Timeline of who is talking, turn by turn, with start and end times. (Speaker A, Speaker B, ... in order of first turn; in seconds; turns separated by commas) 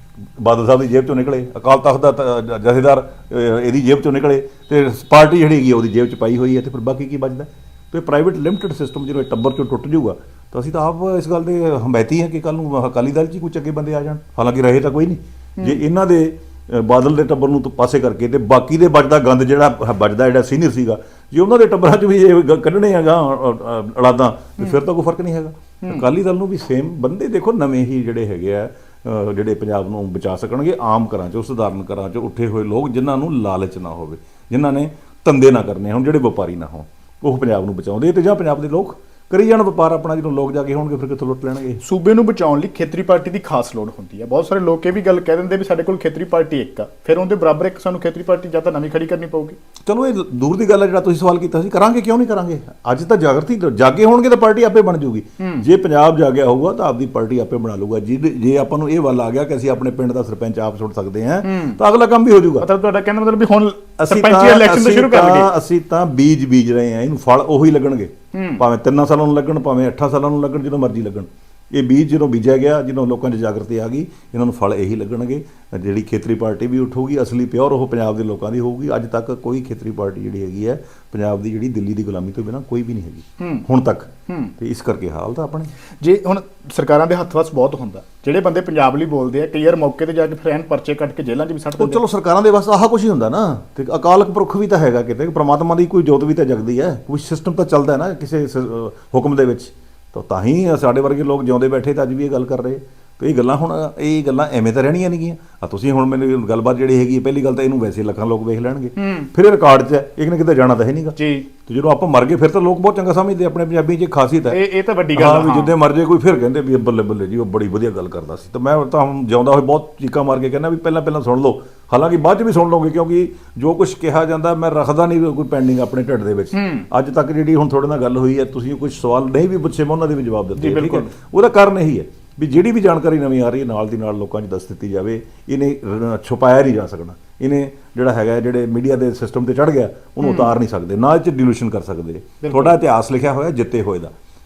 Speaker A: 0.4-41.8, Speaker B: 25.8-26.1, Speaker B: 41.8-49.6, Speaker A: 49.9-62.7, Speaker B: 55.4-55.7, Speaker B: 61.4-61.8, Speaker B: 62.6-65.5, Speaker A: 64.0-85.7, Speaker B: 68.3-68.6, Speaker B: 83.4-83.7, Speaker B: 84.3-84.5, Speaker B: 86.0-92.0, Speaker A: 91.8-114.6, Speaker B: 109.0-109.3, Speaker B: 111.2-111.5, Speaker B: 114.5-115.7, Speaker A: 115.1-144.1, Speaker B: 126.5-126.9, Speaker B: 130.6-131.1, Speaker B: 140.2-140.6, Speaker B: 142.4-142.8